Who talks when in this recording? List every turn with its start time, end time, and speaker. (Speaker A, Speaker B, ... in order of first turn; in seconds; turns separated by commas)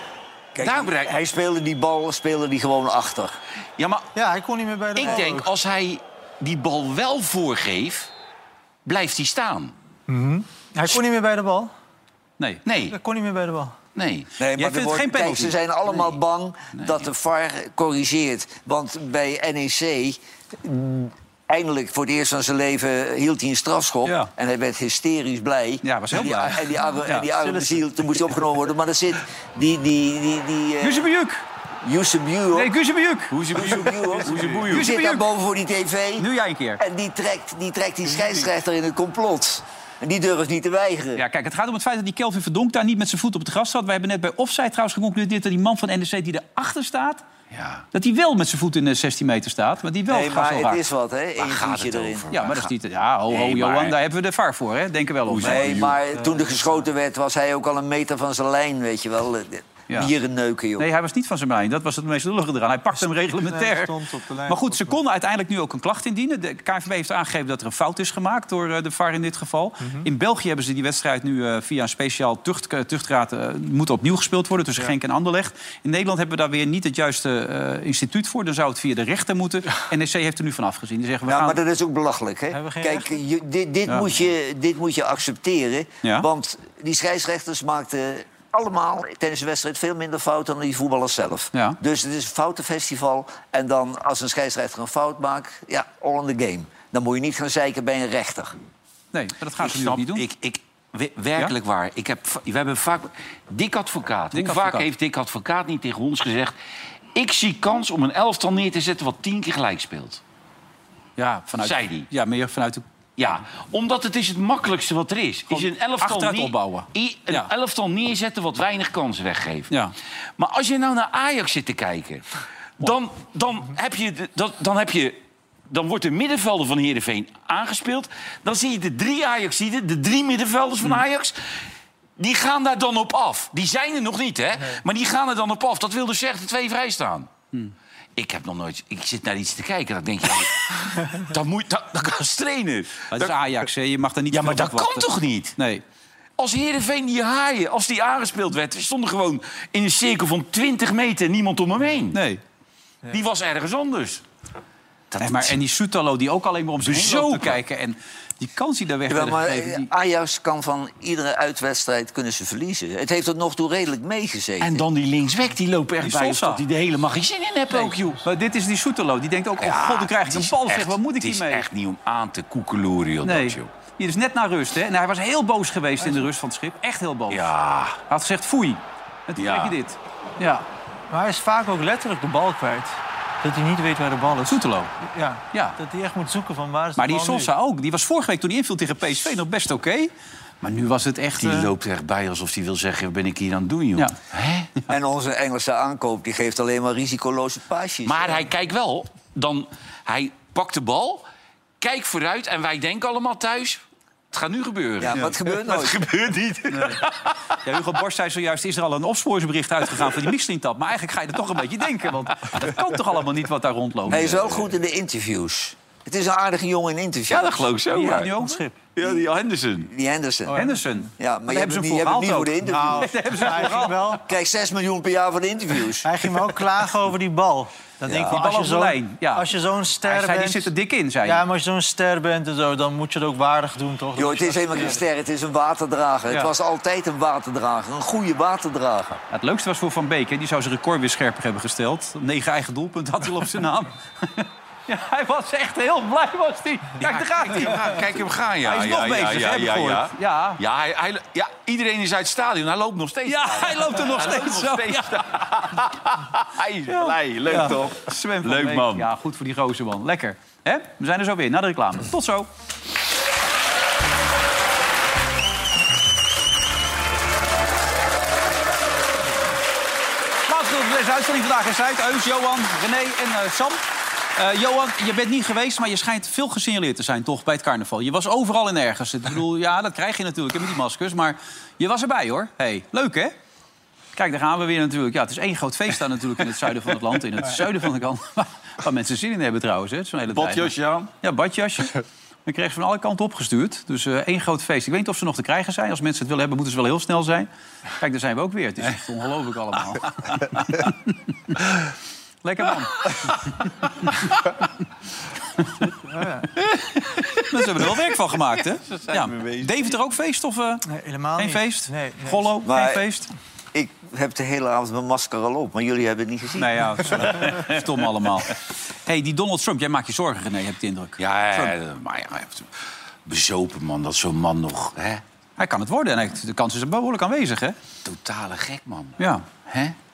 Speaker A: 0.5-3.4, Speaker B: 0.6-1.1, Speaker B: 3.8-4.1, Speaker C: 4.1-5.5, Speaker B: 5.0-8.1, Speaker B: 8.8-9.7, Speaker C: 10.1-11.7, Speaker B: 12.6-12.9, Speaker C: 12.9-13.7, Speaker B: 13.9-14.3, Speaker A: 14.4-31.1, Speaker D: 14.6-15.5, Speaker B: 16.7-17.1, Speaker D: 25.8-27.3, Speaker C: 27.4-27.8, Speaker D: 30.8-31.4, Speaker A: 31.8-32.7, Speaker D: 32.5-33.4, Speaker B: 33.3-34.9, Speaker A: 33.5-36.2, Speaker D: 34.3-35.2, Speaker D: 36.2-36.8, Speaker A: 36.8-41.2, Speaker D: 41.1-47.2, Speaker B: 47.5-47.9, Speaker D: 47.9-50.8, Speaker A: 50.1-52.3, Speaker B: 51.4-52.7, Speaker D: 52.3-55.9, Speaker B: 53.3-54.0, Speaker B: 55.3-56.0, Speaker A: 55.4-60.9, Speaker C: 56.1-56.8, Speaker D: 60.8-63.9, Speaker C: 63.3-65.0, Speaker D: 64.5-81.6, Speaker C: 69.8-70.1, Speaker A: 81.2-98.5, Speaker C: 82.5-83.2, Speaker D: 91.5-91.8, Speaker D: 99.1-100.2, Speaker B: 99.6-106.5, Speaker D: 104.3-104.9, Speaker B: 107.1-110.2, Speaker D: 111.2-112.8, Speaker B: 111.6-112.1, Speaker B: 113.2-119.7, Speaker D: 115.5-117.5, Speaker B: 120.4-122.2, Speaker B: 122.8-125.2, Speaker B: 125.7-131.4, Speaker B: 132.2-137.3, Speaker B: 138.2-143.3, Speaker D: 143.1-145.8, Speaker B: 144.3-145.6, Speaker B: 146.4-152.2, Speaker D: 152.1-152.4, Speaker B: 153.1-154.2, Speaker B: 155.1-155.6, Speaker D: 155.2-159.9, Speaker B: 156.8-157.6, Speaker A: 159.1-164.8, Speaker B: 164.6-168.2, Speaker D: 166.0-166.6, Speaker D: 167.7-171.6, Speaker B: 169.6-173.7, Speaker D: 173.2-177.5, Speaker B: 177.3-178.0, Speaker D: 178.1-180.7, Speaker B: 179.3-179.8, Speaker C: 181.1-187.5, Speaker D: 184.5-184.9, Speaker D: 185.5-185.8, Speaker D: 187.0-191.7, Speaker B: 191.4-194.7, Speaker A: 194.9-198.5, Speaker B: 198.0-201.2, Speaker B: 201.8-207.4, Speaker A: 205.0-206.1, Speaker D: 206.7-207.0, Speaker D: 207.6-214.6, Speaker A: 214.1-217.8, Speaker B: 217.3-218.3, Speaker D: 217.9-218.6, Speaker C: 218.3-218.8, Speaker B: 218.9-219.9, Speaker A: 219.0-219.2, Speaker A: 219.8-220.6, Speaker C: 220.5-220.8, Speaker D: 220.6-224.1, Speaker A: 221.2-223.1, Speaker C: 222.6-224.2, Speaker A: 224.2-226.1, Speaker C: 226.0-230.7, Speaker A: 228.1-228.4, Speaker D: 228.3-229.5, Speaker D: 230.0-231.4, Speaker C: 231.2-235.0, Speaker A: 234.2-239.2, Speaker D: 239.3-248.0, Speaker B: 247.0-259.1, Speaker D: 248.6-250.6, Speaker D: 253.2-255.4, Speaker D: 256.9-262.5, Speaker D: 270.4-283.3, Speaker D: 284.1-297.5, Speaker B: 290.3-291.1, Speaker D: 298.0-301.6, Speaker D: 302.4-304.1, Speaker C: 305.8-306.5, Speaker D: 306.8-310.9, Speaker B: 308.8-309.9, Speaker C: 310.9-312.5, Speaker D: 311.4-313.3, Speaker A: 312.6-313.0, Speaker A: 313.7-317.4, Speaker D: 316.6-321.7, Speaker B: 321.2-322.7, Speaker B: 323.2-325.2, Speaker D: 325.6-327.8, Speaker B: 328.0-329.9, Speaker D: 329.2-329.5